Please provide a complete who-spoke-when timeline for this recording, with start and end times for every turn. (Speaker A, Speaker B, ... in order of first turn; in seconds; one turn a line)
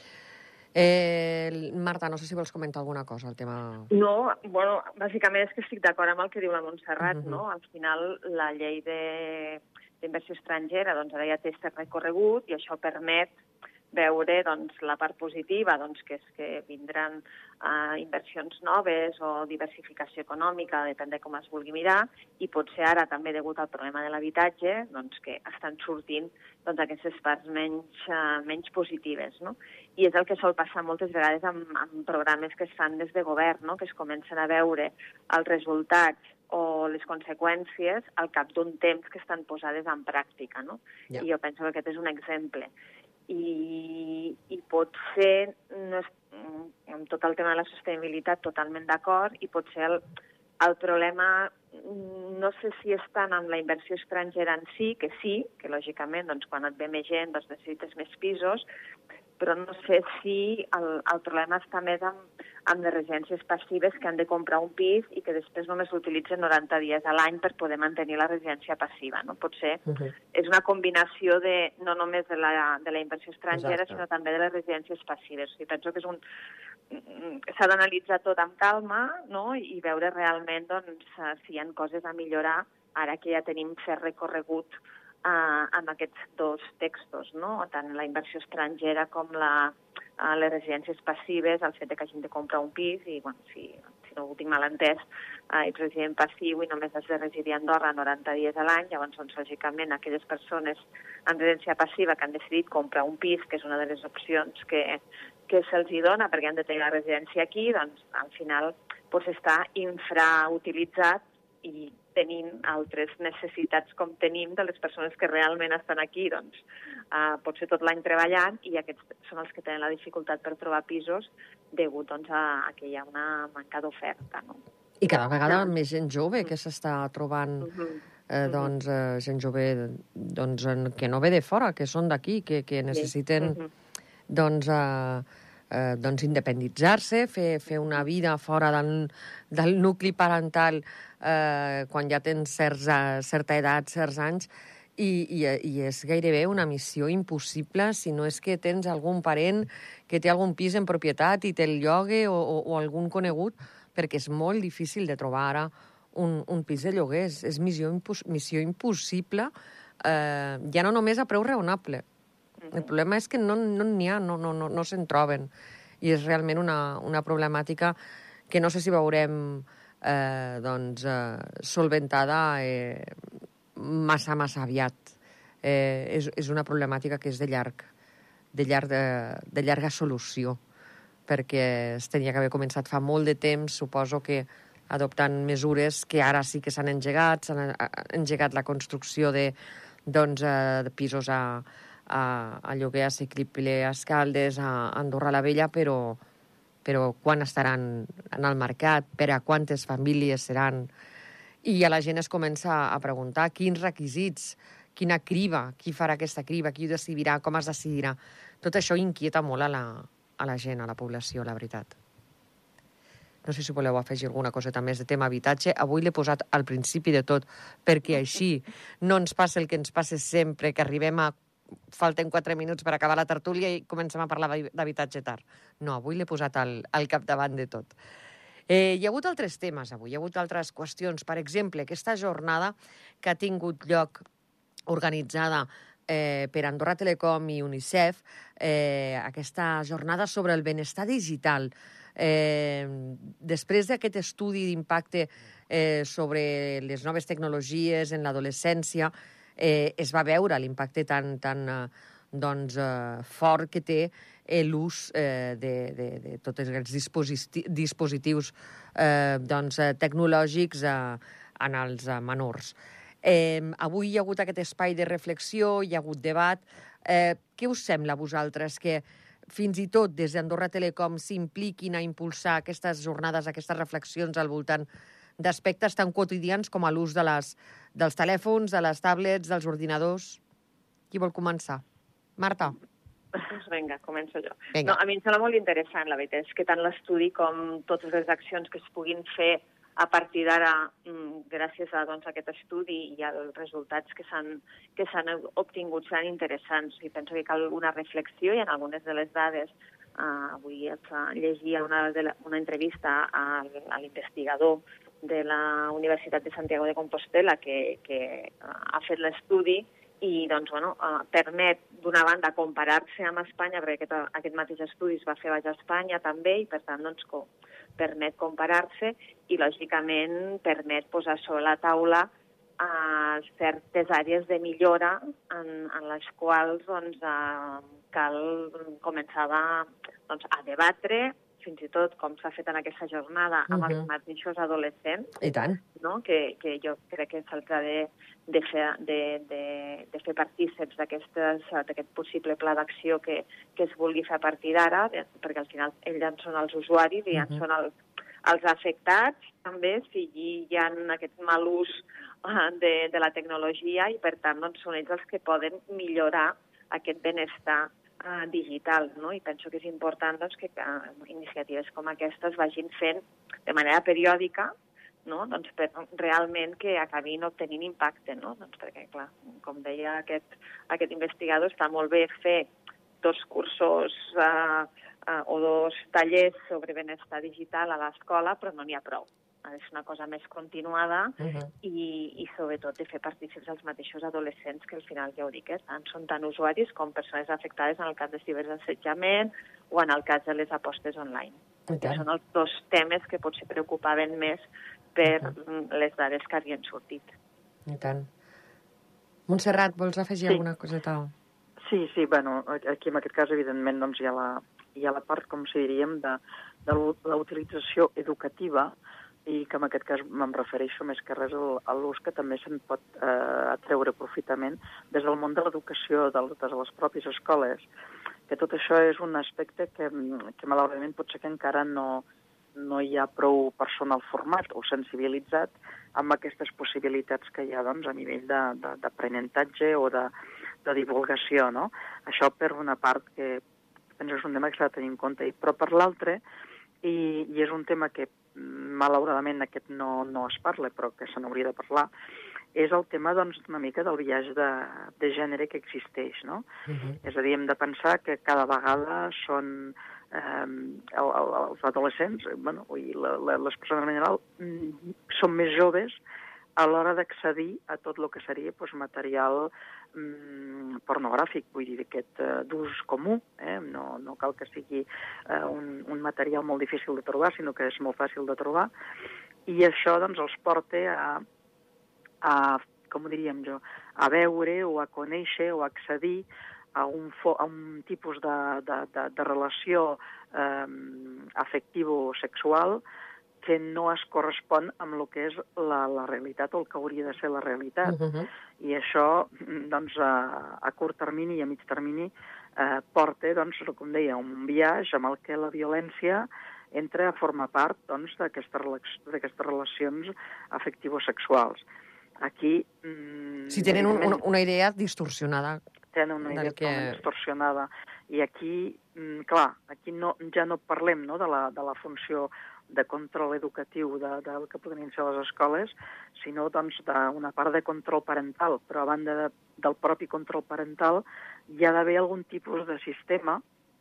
Speaker A: 0.7-3.9
Speaker B: 3.9-13.3
Speaker A: 7.0-7.4
Speaker B: 13.9-42.7
Speaker B: 43.3-50.0
Speaker B: 50.6-58.6
Speaker B: 59.4-69.8
Speaker A: 69.9-70.1
Speaker B: 70.3-76.2
Speaker A: 73.5-74.0
Speaker B: 76.9-84.7
Speaker B: 85.2-124.6
Speaker A: 125.0-127.7
Speaker B: 127.6-128.7
Speaker A: 128.3-133.6
Speaker B: 132.9-133.7
Speaker A: 134.3-162.0
Speaker A: 162.7-165.5
Speaker A: 166.0-167.9
Speaker A: 168.5-177.9
Speaker A: 178.5-180.6
Speaker A: 181.3-189.5
Speaker A: 190.1-196.2
Speaker A: 196.8-200.9
Speaker A: 201.6-211.9
Speaker A: 213.4-221.3
Speaker A: 221.9-227.9
Speaker A: 228.7-234.2
Speaker A: 234.9-274.8
Speaker A: 275.4-280.4
Speaker A: 281.1-281.8
Speaker A: 282.4-282.8
Speaker B: 283.4-335.4
Speaker A: 333.7-334.1
Speaker A: 335.4-335.8
Speaker B: 335.9-347.9
Speaker A: 347.3-347.6
Speaker B: 348.4-364.7
Speaker B: 365.2-372.7
Speaker B: 373.2-394.6
Speaker A: 381.4-381.7
Speaker A: 391.9-392.2
Speaker B: 395.1-397.3
Speaker A: 397.9-398.3
Speaker A: 399.5-401.3
Speaker C: 401.8-408.9
Speaker C: 409.4-417.9
Speaker C: 418.5-422.2
Speaker C: 422.8-430.3
Speaker C: 430.8-433.6
Speaker C: 434.2-436.4
Speaker C: 437.0-442.1
Speaker C: 442.7-446.6
Speaker A: 446.9-447.2
Speaker C: 447.2-456.2
Speaker C: 456.8-468.9
Speaker C: 469.7-471.4
Speaker C: 472.4-483.0
Speaker C: 483.6-488.2
Speaker A: 488.0-488.5
Speaker C: 488.8-501.8
Speaker C: 502.4-504.4
Speaker A: 503.7-505.8
Speaker C: 506.1-523.6
Speaker A: 506.4-507.2